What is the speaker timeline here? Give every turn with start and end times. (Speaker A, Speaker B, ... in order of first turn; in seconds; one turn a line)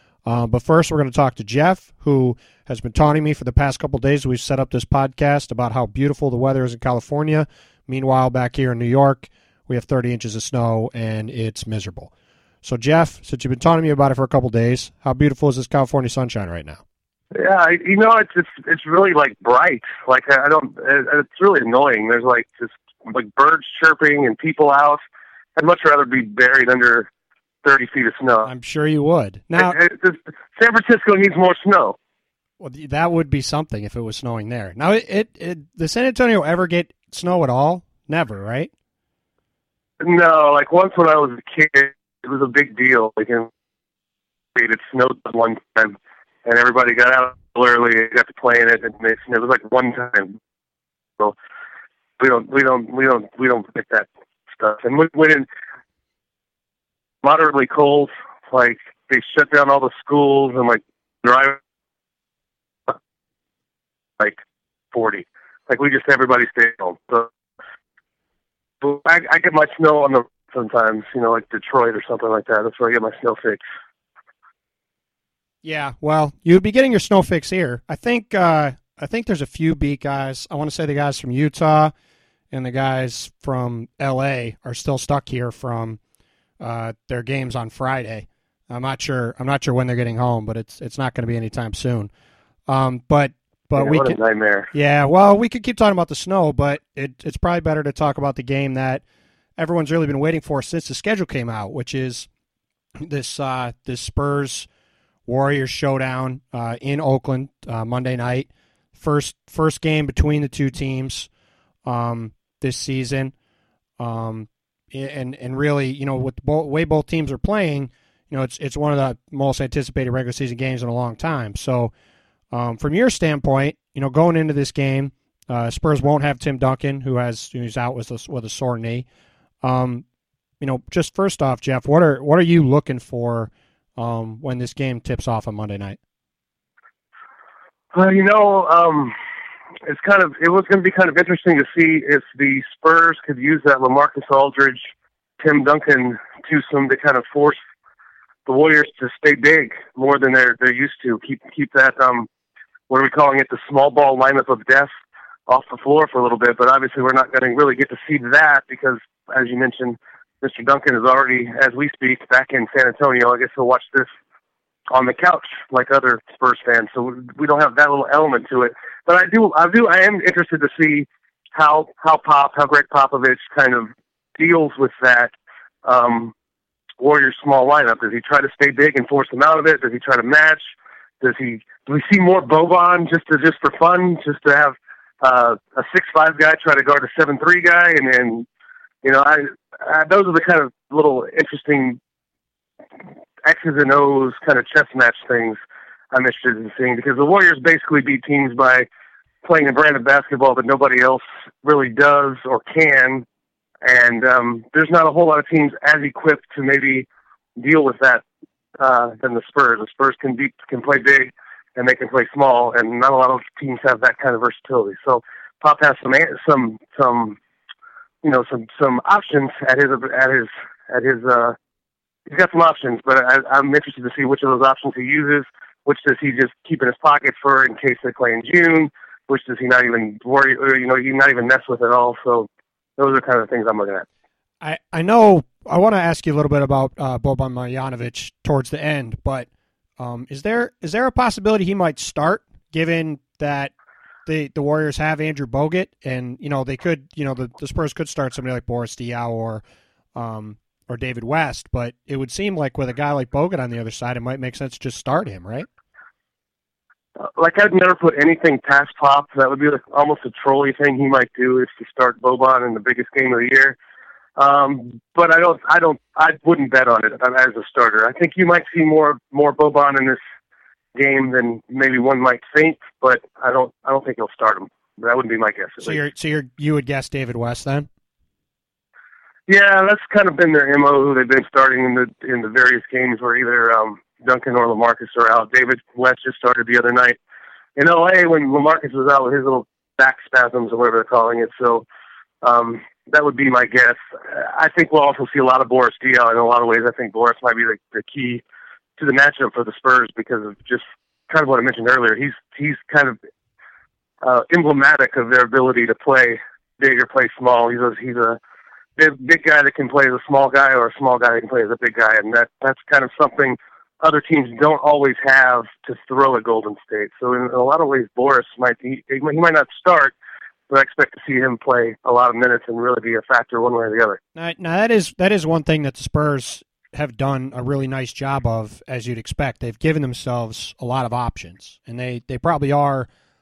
Speaker A: 0.2-12.1
Speaker A: 12.6-16.8
Speaker B: 17.3-25.0
Speaker B: 25.6-27.1
Speaker B: 27.6-28.5
Speaker A: 28.4-29.8
Speaker B: 29.5-32.0
Speaker A: 32.6-38.7
Speaker B: 40.0-43.5
Speaker B: 44.5-50.4
Speaker B: 52.2-55.5
Speaker B: 57.2-61.6
Speaker B: 64.9-67.3
Speaker B: 68.8-73.6
Speaker A: 75.6-81.9
Speaker A: 82.5-86.0
Speaker A: 86.6-92.1
Speaker A: 92.7-94.2
Speaker B: 93.8-94.7
Speaker A: 94.7-99.0
Speaker A: 99.6-102.3
Speaker A: 103.0-104.7
Speaker A: 105.3-111.3
Speaker A: 111.8-113.3
Speaker A: 114.0-121.9
Speaker A: 122.5-129.1
Speaker A: 129.6-130.0
Speaker A: 130.6-136.0
Speaker B: 137.9-139.1
Speaker B: 139.8-144.9
Speaker B: 145.4-147.6
Speaker B: 148.4-152.3
Speaker B: 152.9-154.9
Speaker B: 155.5-164.1
Speaker B: 164.9-175.3
Speaker B: 175.8-176.3
Speaker B: 177.0-188.4
Speaker B: 189.0-192.0
Speaker B: 193.4-195.6
Speaker B: 196.1-198.9
Speaker B: 199.4-203.2
Speaker B: 203.8-208.2
Speaker B: 208.8-217.4
Speaker B: 218.2-221.6
Speaker B: 222.3-234.1
Speaker A: 234.6-243.7
Speaker A: 244.2-249.6
Speaker A: 250.1-255.7
Speaker B: 257.2-263.8
Speaker B: 264.4-270.2
Speaker B: 270.9-276.0
Speaker A: 275.8-277.9
Speaker B: 279.5-287.2
Speaker B: 287.8-291.8
Speaker B: 292.4-298.4
Speaker B: 299.0-303.2
Speaker B: 304.2-308.4
Speaker B: 309.0-320.1
Speaker B: 320.7-324.2
Speaker A: 324.3-333.1